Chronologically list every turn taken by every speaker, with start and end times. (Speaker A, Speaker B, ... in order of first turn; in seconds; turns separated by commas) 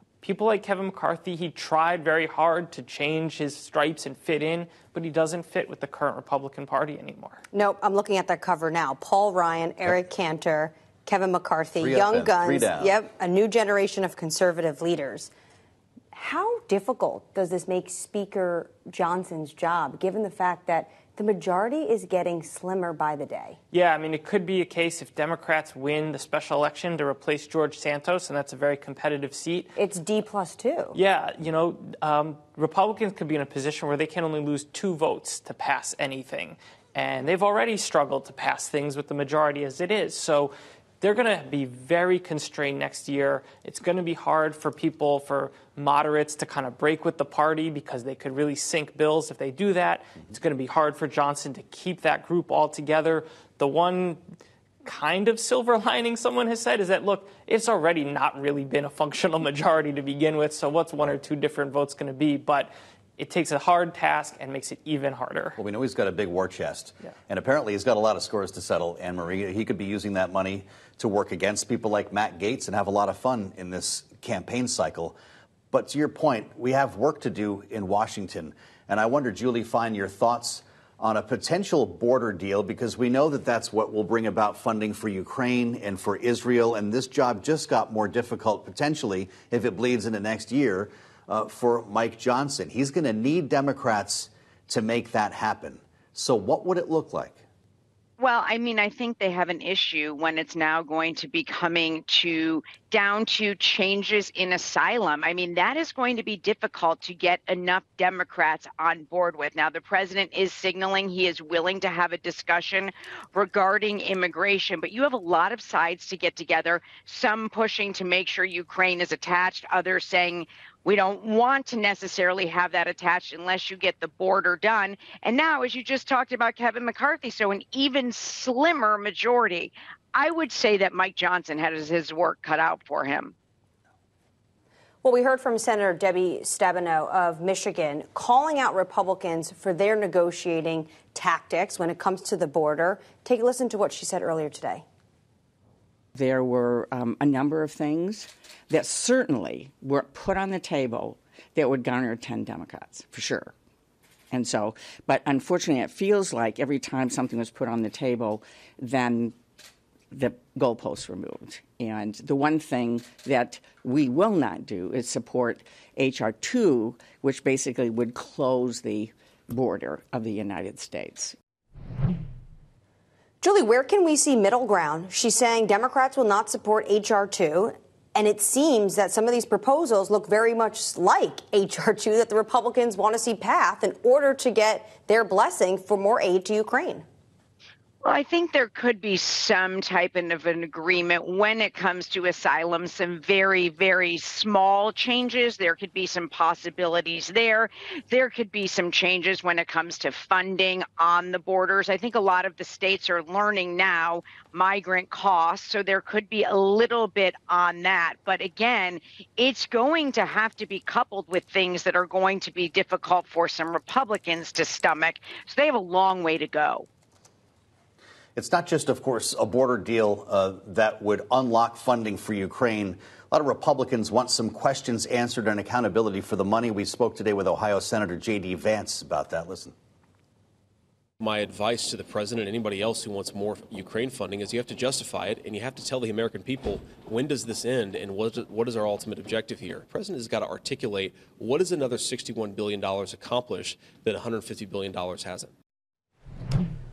Speaker A: 0.2-7.4, Speaker B: 7.5-15.3, Speaker C: 11.8-12.9, Speaker B: 16.1-23.6, Speaker A: 23.7-29.7, Speaker B: 29.8-30.9, Speaker A: 30.9-54.2, Speaker A: 54.8-65.6, Speaker C: 65.6-75.1, Speaker C: 75.7-97.4, Speaker D: 98.2-133.3, Speaker B: 135.0-144.8, Speaker E: 146.1-153.5, Speaker E: 154.3-159.3, Speaker E: 160.1-171.3, Speaker B: 173.4-187.0, Speaker D: 188.0-216.8, Speaker C: 218.3-229.7, Speaker F: 231.2-245.5